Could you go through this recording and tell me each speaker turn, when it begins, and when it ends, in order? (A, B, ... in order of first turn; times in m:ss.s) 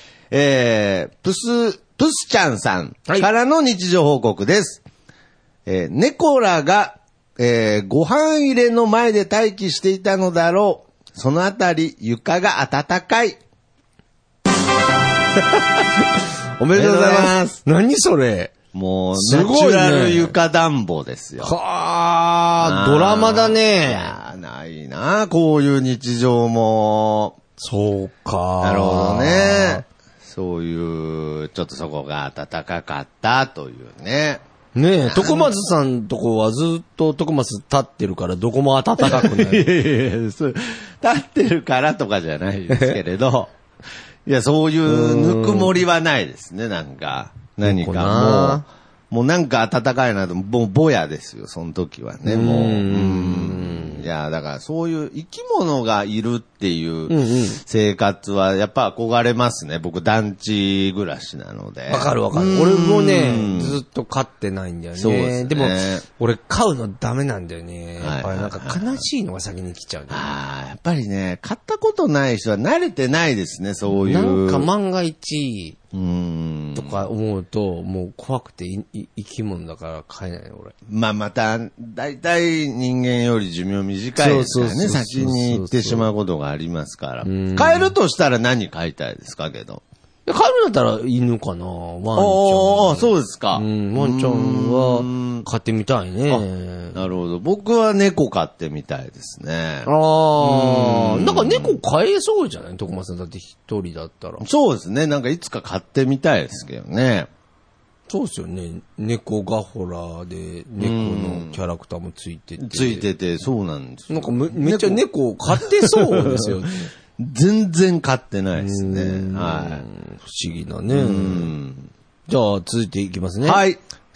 0:00.3-0:04.8 A
0:05.6-0:13.4 A
0:16.6-0:18.6 B
0:16.6-0:17.6 A
0:18.7-0:21.5 A
0:19.1-0:20.3 B
0:21.4-0:24.1 B
0:22.6-0:27.4 A
0:27.6-0:29.8 B
0:28.6-0:34.4 A
0:34.7-0:39.7 B
0:35.0-0:35.5 A
0:39.0-0:43.5 A
0:42.7-0:43.0 B
0:44.2-1:03.8 A
0:44.9-0:45.7 B
0:47.6-0:48.6 B
0:52.2-0:54.0 B
0:57.1-0:57.6 B
1:01.9-1:10.3 B
1:04.9-1:06.0 A
1:08.0-1:09.0 A
1:10.1-1:14.7 A
1:13.9-1:15.8 B
1:15.9-1:17.1 A
1:16.7-1:20.7 B
1:20.9-1:29.8 A
1:24.2-1:26.1 B
1:27.2-1:27.9 B
1:30.2-1:37.0 B
1:32.2-1:35.4 A
1:36.3-1:39.9 A
1:39.8-1:44.4 B
1:40.4-1:41.8 A
1:44.4-1:47.3 A
1:48.1-1:53.0 B
1:50.8-1:51.6 A
1:52.6-1:56.6 A
1:54.1-1:56.9 B
1:57.2-1:59.8 A
1:58.6-2:01.5 B
2:00.9-2:01.9 A
2:02.3-2:03.6 B
2:03.4-2:03.8 A